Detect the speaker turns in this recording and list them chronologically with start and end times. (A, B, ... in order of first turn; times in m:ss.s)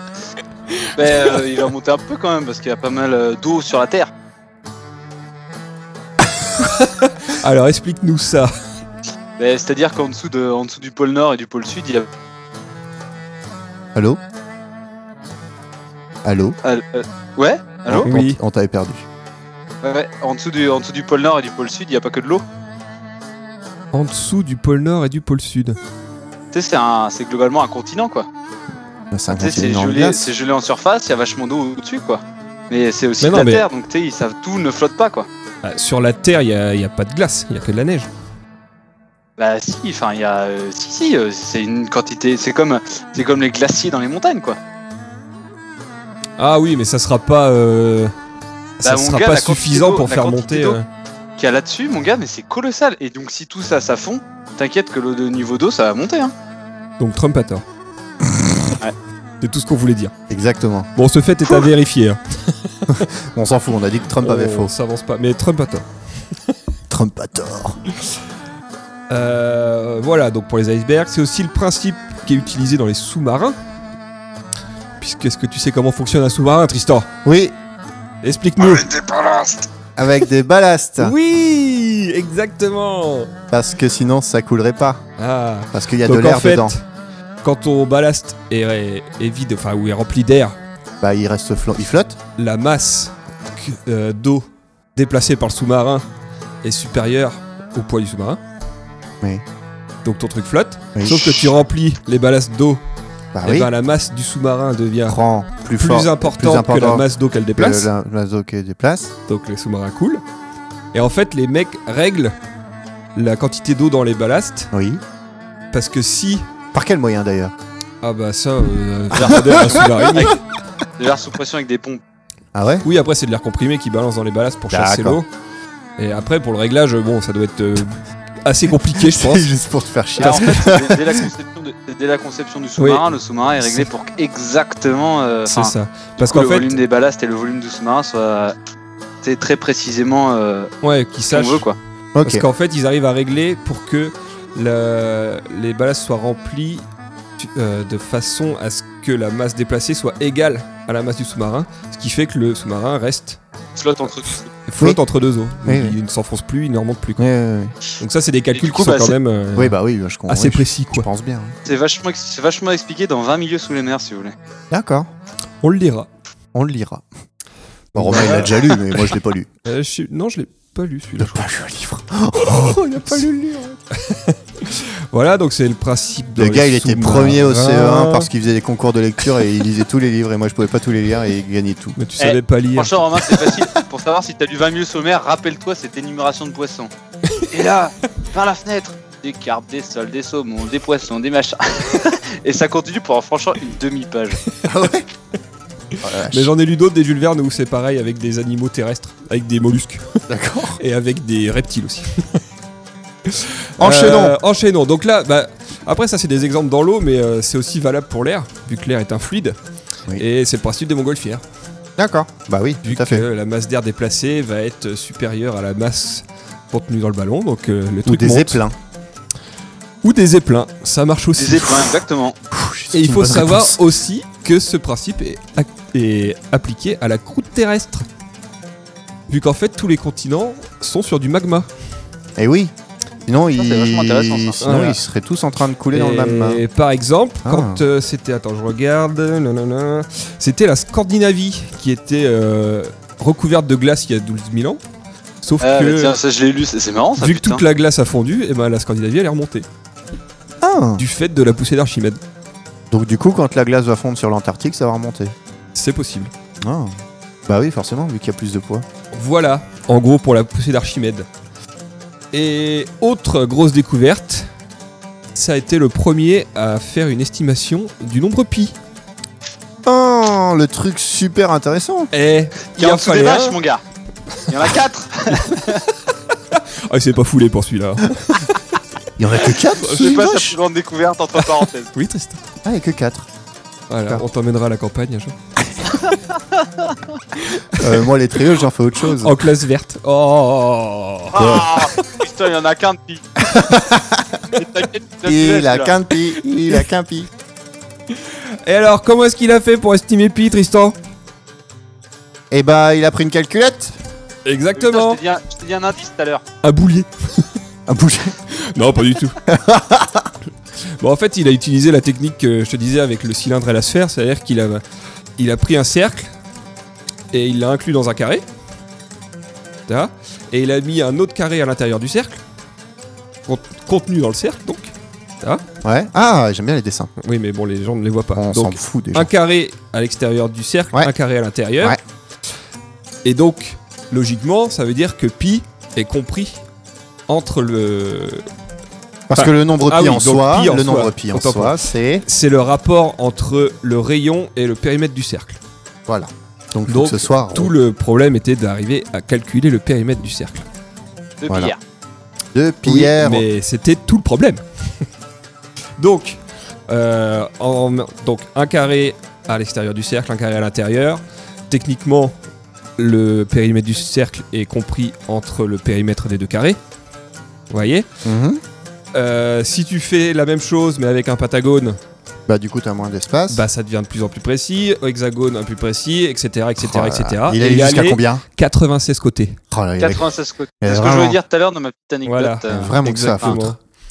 0:00.7-0:01.4 A
0:01.0-0:04.1 B
0:06.4-0:08.5 A
0:09.4-0:12.1 B
0:14.0-0:14.2 C
0:16.2-0:16.6 C
0:16.6-0:18.1 B
0:17.9-0:19.1 C
0:18.0-0:18.4 A
0:19.8-0:22.4 B
0:23.9-0:25.8 A
0:26.5-0:28.3 B
0:29.1-0:30.3 C
0:29.3-0:35.3 B
0:33.2-0:33.7 A
0:35.6-0:38.1 A
0:39.4-0:44.6 B
0:46.4-0:48.1 A
0:48.8-0:50.9 A
0:48.8-0:50.8 B
0:51.4-0:56.3 B
0:57.0-0:57.6 A
0:58.2-0:58.7 C
0:59.4-1:00.1 A
1:00.3-1:00.9 C
1:01.0-1:03.1 A
1:02.9-1:04.7 C
1:04.2-1:05.9 A
1:06.9-1:07.8 C
1:09.1-1:13.6 A
1:15.0-1:17.1 A
1:17.2-1:17.6 C
1:18.2-1:19.6 A
1:20.0-1:21.2 C
1:21.0-1:23.3 A
1:23.5-1:25.0 C
1:25.2-1:26.8 A
1:25.7-1:26.7 C
1:27.4-1:30.6 A
1:31.0-1:32.2 C
1:32.4-1:36.1 A
1:36.6-1:38.4 A
1:40.0-1:42.8 A
1:41.0-1:41.5 C
1:43.3-1:43.7 C
1:43.4-1:45.2 A
1:45.1-1:49.1 C
1:45.8-1:47.9 A
1:49.3-1:50.2 A
1:50.9-1:52.4 A
1:53.2-1:54.7 A
1:54.7-1:55.0 C
1:55.7-1:56.5 A
1:56.7-1:57.5 C
1:58.0-2:00.4 A
1:59.1-2:00.4 B
1:59.2-2:00.2 C
2:01.0-2:02.0 B
2:02.5-2:02.8 C
2:02.8-2:05.3 A
2:04.7-2:05.2 C
2:06.0-2:09.5 A
2:09.0-2:11.3 C
2:10.2-2:18.6 B
2:12.8-2:13.0 A
2:15.5-2:16.8 A
2:19.2-2:20.7 B
2:20.8-2:21.6 A
2:21.3-2:21.8 B
2:22.2-2:22.4 C
2:22.2-2:26.9 A
2:27.4-2:33.4 A
2:33.8-2:34.5 B
2:34.7-2:37.3 A
2:35.6-2:36.0 C
2:37.2-2:37.8 C
2:38.0-2:41.1 A
2:38.5-2:39.2 B
2:39.6-2:41.6 C
2:41.7-2:44.4 B
2:44.7-2:45.1 C
2:45.6-2:46.1 A
2:46.5-2:47.0 C
2:47.9-2:48.7 A
2:47.9-2:49.5 C
2:48.0-2:48.6 B
2:49.6-2:51.5 A
2:51.2-2:53.8 C
2:52.4-2:53.2 A
2:53.9-2:58.3 A
2:56.4-3:02.0 C
3:02.0-3:03.0 A
3:02.2-3:06.9 B
3:07.5-3:14.4 B
3:14.6-3:15.1 C
3:16.0-3:20.2 A
3:16.0-3:16.5 C
3:20.3-3:20.8 C
3:20.8-3:22.4 A
3:23.3-3:29.6 A
3:23.8-3:24.4 C
3:30.2-3:31.4 A
3:32.0-3:33.2 C
3:32.8-3:38.6 A
3:38.0-3:38.8 C
3:40.0-3:41.9 A
3:41.4-3:42.4 B
3:42.5-3:43.8 C
3:42.9-3:48.1 A
3:49.3-3:51.7 A
3:52.4-3:52.7 C
3:53.3-3:56.6 C
3:53.6-3:54.7 B
3:54.6-3:55.0 A
3:55.9-4:04.8 A
3:57.4-3:57.8 C
4:05.4-4:06.2 A
4:05.6-4:07.6 B
4:07.2-4:09.7 A
4:10.6-4:11.0 C
4:11.0-4:12.2 A
4:12.9-4:15.4 C
4:15.8-4:16.3 A
4:16.6-4:16.9 C
4:17.5-4:18.9 C
4:19.1-4:21.3 A
4:22.3-4:24.5 A
4:25.3-4:28.8 A
4:29.8-4:32.1 C
4:32.1-4:33.6 A
4:32.8-4:33.8 B
4:34.5-4:35.8 B
4:35.3-4:38.8 A
4:39.2-4:40.6 C
4:39.8-4:40.2 A
4:39.8-4:41.9 B
4:41.4-4:42.4 A
4:42.6-4:43.3 C
4:43.9-4:45.4 A
4:46.1-4:47.0 B
4:47.4-4:48.1 A
4:47.8-4:49.4 C
4:49.2-4:52.1 A
4:51.3-4:53.3 B
4:51.4-4:51.7 C
4:53.4-4:54.4 C
4:54.5-4:55.9 B
4:55.3-4:57.3 C
4:58.1-5:01.0 A
5:02.5-5:04.0 C
5:04.5-5:05.2 A
5:04.8-5:06.4 B
5:06.6-5:07.5 A
5:07.9-5:08.4 C
5:08.5-5:09.4 A
5:09.5-5:10.3 C
5:11.0-5:14.8 A
5:15.4-5:16.3 A
5:17.3-5:18.4 A
5:19.9-5:22.4 A
5:23.5-5:25.6 A
5:25.8-5:27.1 C
5:27.2-5:32.0 A
5:28.4-5:29.3 C
5:33.2-5:36.6 A
5:37.3-5:38.4 A
5:39.3-5:42.2 C
5:39.4-5:45.6 A
5:46.1-5:47.7 C
5:46.9-5:50.6 A
5:51.4-5:51.8 B
5:52.5-5:53.4 C
5:52.8-5:55.0 A
5:56.0-6:02.4 A
6:03.0-6:06.8 A
6:07.7-6:08.1 A
6:08.2-6:08.6 C
6:09.1-6:12.0 A
6:12.5-6:13.6 C
6:13.5-6:19.6 A
6:16.8-6:18.4 C
6:19.7-6:20.2 C
6:20.0-6:23.6 B
6:20.8-6:21.4 C
6:22.3-6:23.8 A
6:22.7-6:23.7 C